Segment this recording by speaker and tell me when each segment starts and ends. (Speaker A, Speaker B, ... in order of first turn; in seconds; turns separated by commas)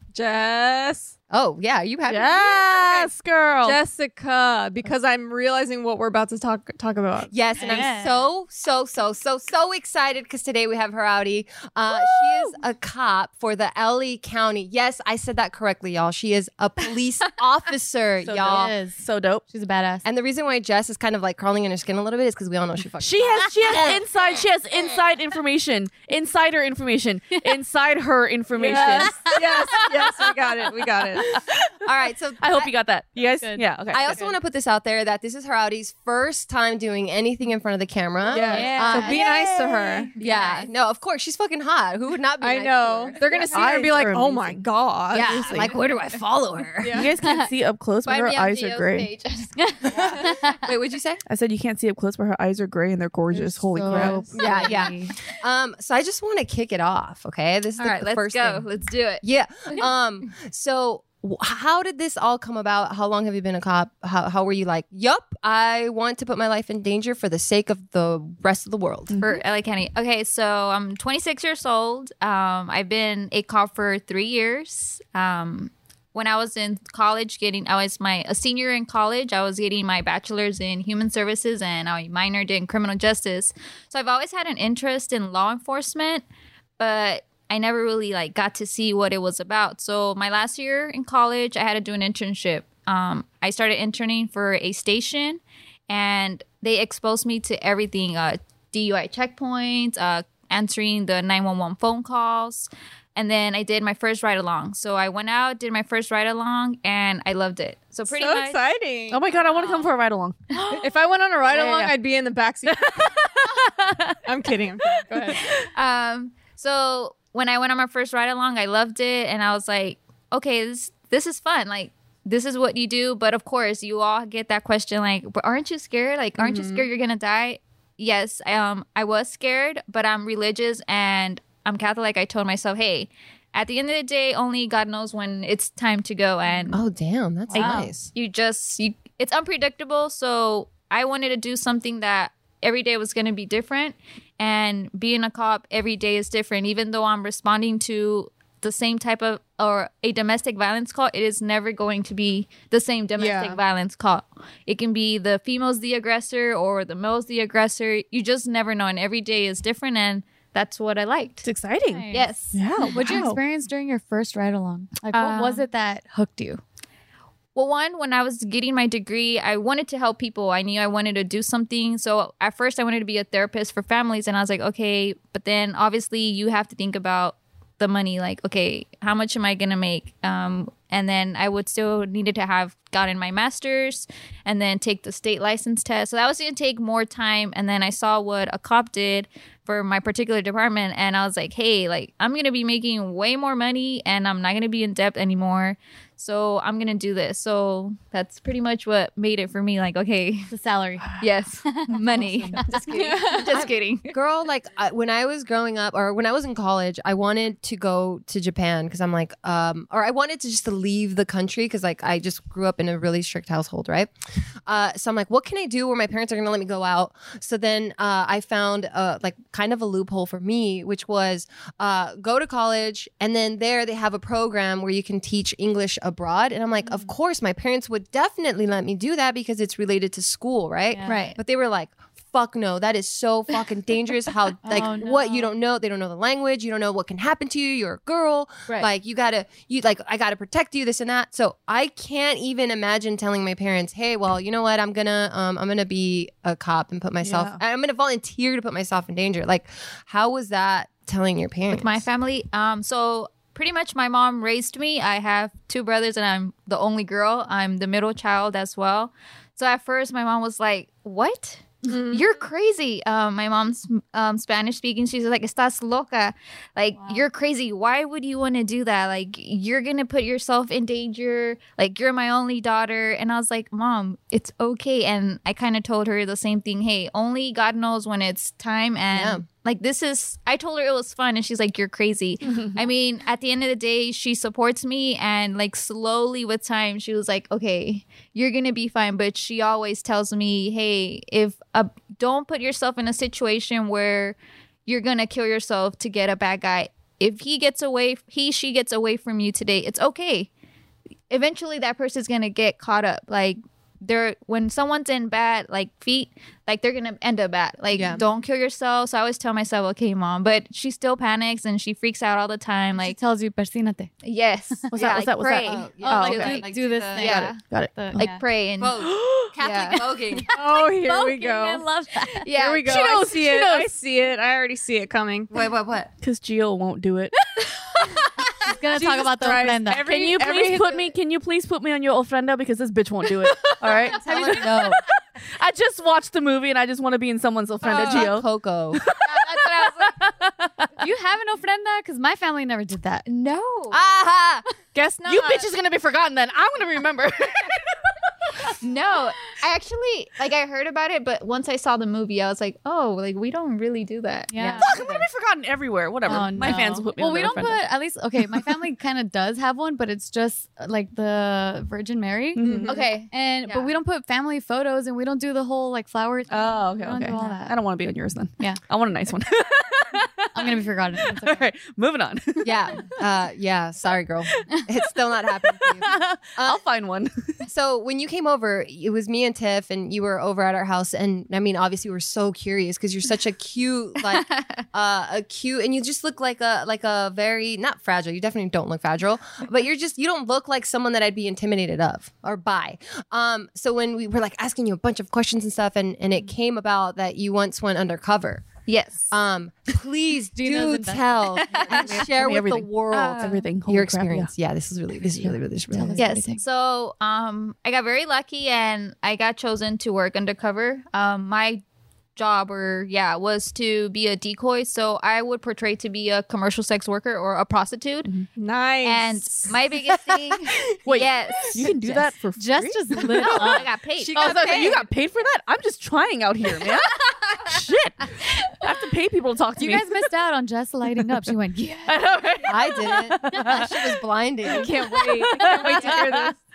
Speaker A: 0.1-1.1, Speaker B: 1.3-3.1, Speaker C: 2.1-3.8, Speaker A: 3.6-7.9, Speaker B: 7.3-18.8, Speaker D: 7.6-8.2, Speaker C: 11.9-12.5, Speaker C: 18.2-19.4, Speaker D: 18.4-20.1, Speaker B: 20.0-24.0, Speaker C: 23.0-31.8, Speaker A: 28.6-31.5, Speaker B: 28.8-29.1, Speaker B: 30.8-32.7, Speaker C: 32.4-34.2, Speaker D: 33.2-34.4, Speaker B: 33.9-43.9, Speaker A: 38.3-40.1, Speaker D: 38.3-39.4, Speaker E: 38.5-39.2, Speaker E: 40.1-40.7, Speaker A: 42.4-45.7, Speaker C: 43.5-44.6, Speaker B: 45.1-47.0, Speaker A: 46.8-47.1, Speaker C: 46.9-49.1, Speaker E: 48.0-50.6, Speaker B: 49.9-51.2, Speaker C: 51.3-54.3, Speaker D: 53.3-55.1, Speaker A: 53.8-54.4, Speaker B: 54.3-58.6, Speaker E: 57.8-59.2, Speaker B: 59.2-69.2, Speaker C: 69.1-69.4, Speaker E: 69.2-86.2, Speaker E: 86.8-108.6, Speaker A: 108.1-109.2, Speaker C: 109.1-110.4, Speaker E: 109.4-109.9, Speaker A: 110.7-113.2, Speaker C: 111.5-112.0, Speaker C: 112.7-114.2, Speaker A: 114.2-115.5, Speaker C: 115.0-115.5, Speaker E: 115.5-136.8, Speaker A: 126.4-126.9, Speaker B: 136.7-138.1, Speaker E: 137.5-161.4, Speaker D: 137.5-137.9, Speaker A: 153.2-153.6, Speaker C: 161.4-163.4, Speaker D: 161.8-162.3, Speaker E: 162.1-162.6, Speaker D: 162.9-166.6, Speaker E: 165.1-165.6, Speaker E: 167.5-200.5, Speaker D: 200.5-201.2, Speaker E: 201.2-204.1, Speaker D: 201.9-203.1, Speaker B: 202.7-214.1, Speaker A: 202.9-203.5, Speaker B: 214.7-252.0, Speaker D: 230.9-231.2, Speaker E: 231.1-231.4, Speaker D: 234.6-235.5, Speaker C: 247.2-247.6, Speaker E: 251.7-300.5, Speaker A: 261.9-262.3, Speaker D: 267.0-267.2, Speaker B: 279.1-279.4, Speaker C: 282.4-282.9, Speaker E: 301.3-313.2, Speaker B: 307.9-308.2, Speaker D: 313.0-314.1, Speaker E: 314.2-317.6, Speaker C: 314.9-316.6, Speaker B: 315.6-317.4, Speaker D: 316.0-318.4, Speaker C: 317.2-318.3, Speaker E: 318.1-319.0, Speaker B: 318.8-320.4, Speaker C: 318.9-319.5, Speaker E: 319.6-322.9, Speaker A: 320.5-321.9, Speaker A: 322.4-325.5, Speaker C: 322.8-323.9, Speaker B: 325.5-326.1, Speaker C: 326.2-327.4, Speaker D: 328.6-330.1, Speaker A: 328.9-331.1, Speaker C: 329.9-335.0, Speaker E: 333.6-334.9, Speaker B: 334.1-335.0, Speaker C: 335.5-340.9, Speaker B: 337.8-339.0, Speaker A: 337.9-338.2, Speaker E: 339.2-340.2, Speaker D: 341.0-343.2, Speaker E: 343.2-344.0, Speaker B: 343.9-344.6, Speaker E: 344.9-345.6, Speaker C: 345.2-348.1, Speaker E: 348.8-354.9, Speaker D: 354.5-354.9, Speaker C: 354.8-357.8, Speaker B: 354.8-355.3, Speaker D: 356.2-362.9, Speaker A: 356.6-356.9, Speaker C: 362.6-362.9, Speaker A: 362.6-363.1, Speaker E: 362.9-363.9, Speaker D: 363.6-367.8, Speaker C: 366.5-373.1, Speaker D: 370.5-371.6, Speaker B: 372.6-376.8, Speaker C: 375.6-377.6, Speaker B: 377.6-398.7, Speaker E: 384.3-384.8, Speaker E: 398.9-399.3, Speaker B: 399.3-406.2, Speaker D: 400.5-402.3, Speaker E: 401.7-402.2, Speaker C: 402.2-404.5, Speaker E: 403.1-403.6, Speaker D: 405.9-406.6, Speaker E: 406.2-411.8, Speaker E: 412.4-418.3, Speaker A: 418.6-419.7, Speaker E: 419.0-422.3, Speaker C: 421.1-430.1, Speaker D: 422.6-423.9, Speaker E: 423.3-425.0, Speaker B: 424.2-425.1, Speaker D: 429.8-432.2, Speaker C: 432.1-436.5, Speaker B: 432.7-434.9, Speaker A: 434.7-436.5, Speaker B: 435.7-436.2